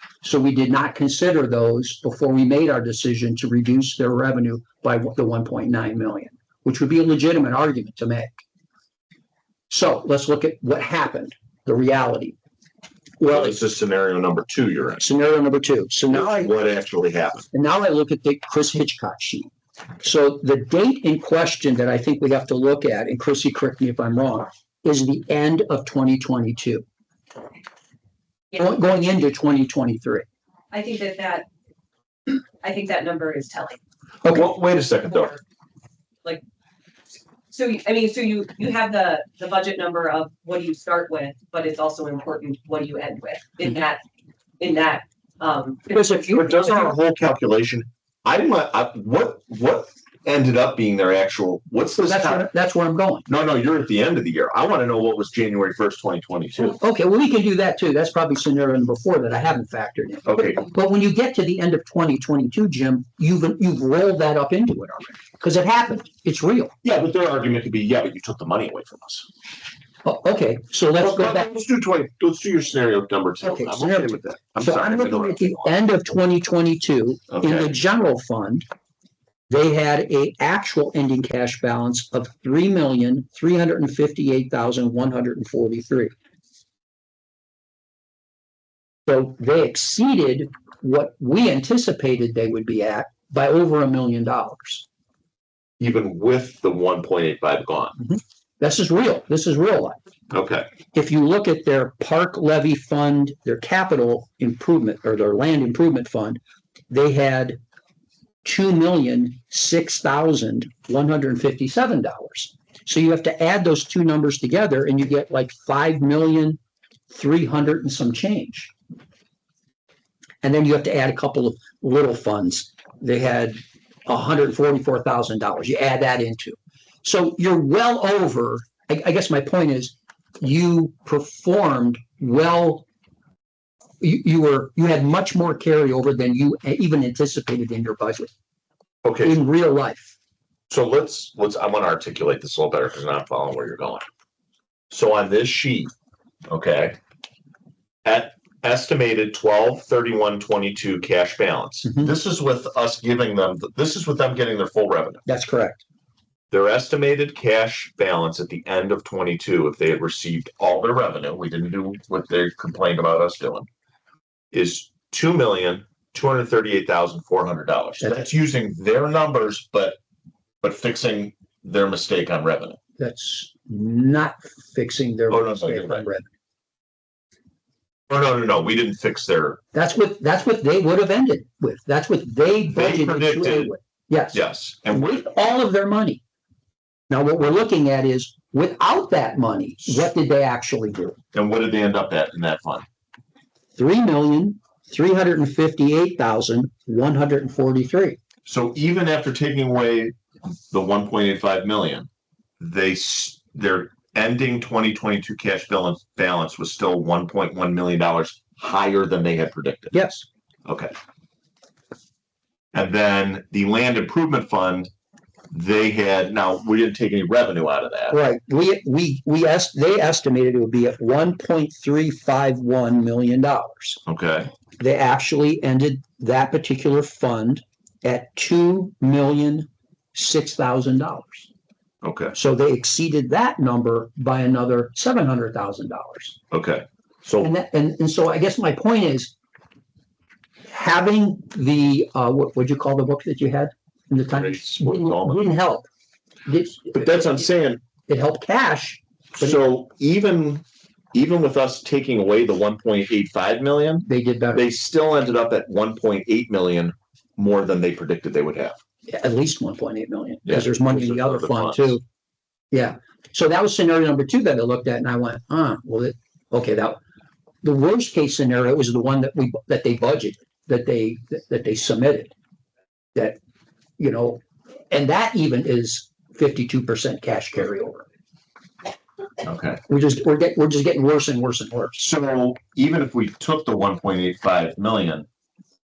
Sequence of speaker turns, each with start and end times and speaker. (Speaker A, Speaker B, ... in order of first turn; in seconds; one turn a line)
Speaker A: 0.2-8.4
Speaker A: 9.7-12.3
Speaker A: 13.2-13.6
Speaker B: 13.3-15.1
Speaker A: 15.0-16.5
Speaker B: 16.1-17.5
Speaker A: 17.5-19.5
Speaker A: 20.0-26.8
Speaker A: 28.5-30.2
Speaker C: 30.7-31.4
Speaker C: 32.3-33.8
Speaker B: 34.2-35.3
Speaker C: 35.1-35.4
Speaker C: 37.5-44.0
Speaker C: 44.6-46.3
Speaker A: 45.9-46.9
Speaker B: 46.3-52.5
Speaker A: 52.0-53.2
Speaker B: 53.3-56.8
Speaker A: 56.6-66.7
Speaker B: 60.2-60.6
Speaker B: 66.8-69.3
Speaker A: 70.0-71.5
Speaker B: 71.0-75.7
Speaker A: 73.4-78.7
Speaker B: 77.3-77.7
Speaker A: 79.5-86.1
Speaker A: 89.1-94.8
Speaker B: 95.8-98.0
Speaker A: 98.6-100.0
Speaker B: 100.3-100.7
Speaker A: 100.9-106.4
Speaker A: 106.9-107.6
Speaker A: 108.4-116.6
Speaker A: 117.1-118.7
Speaker A: 120.4-132.8
Speaker A: 134.0-138.3
Speaker B: 139.0-139.4
Speaker A: 139.2-140.2
Speaker B: 140.7-144.1
Speaker B: 144.9-145.9
Speaker B: 146.5-147.0
Speaker B: 148.0-155.2
Speaker A: 151.8-152.1
Speaker A: 155.2-155.8
Speaker B: 156.5-163.7
Speaker B: 164.5-170.0
Speaker B: 170.6-172.8
Speaker A: 173.0-176.3
Speaker B: 175.3-176.1
Speaker B: 178.1-179.6
Speaker A: 179.7-186.2
Speaker B: 182.7-183.7
Speaker B: 184.3-185.2
Speaker A: 187.1-191.2
Speaker B: 191.3-192.8
Speaker A: 193.8-198.2
Speaker B: 198.4-202.1
Speaker B: 202.6-210.1
Speaker A: 209.9-210.2
Speaker B: 210.7-210.9
Speaker B: 212.7-214.9
Speaker B: 215.5-218.2
Speaker A: 218.1-224.0
Speaker B: 224.1-224.5
Speaker A: 224.8-231.5
Speaker B: 232.0-232.3
Speaker A: 232.3-236.4
Speaker B: 236.5-237.5
Speaker A: 237.4-239.3
Speaker A: 240.7-245.9
Speaker B: 244.3-245.4
Speaker A: 246.4-247.5
Speaker B: 246.9-247.8
Speaker A: 248.1-249.6
Speaker B: 249.4-258.8
Speaker A: 254.1-254.6
Speaker A: 259.1-262.0
Speaker B: 260.4-262.0
Speaker A: 262.7-267.0
Speaker A: 267.6-272.3
Speaker A: 274.0-278.0
Speaker B: 279.4-279.8
Speaker A: 279.9-282.0
Speaker B: 282.0-285.2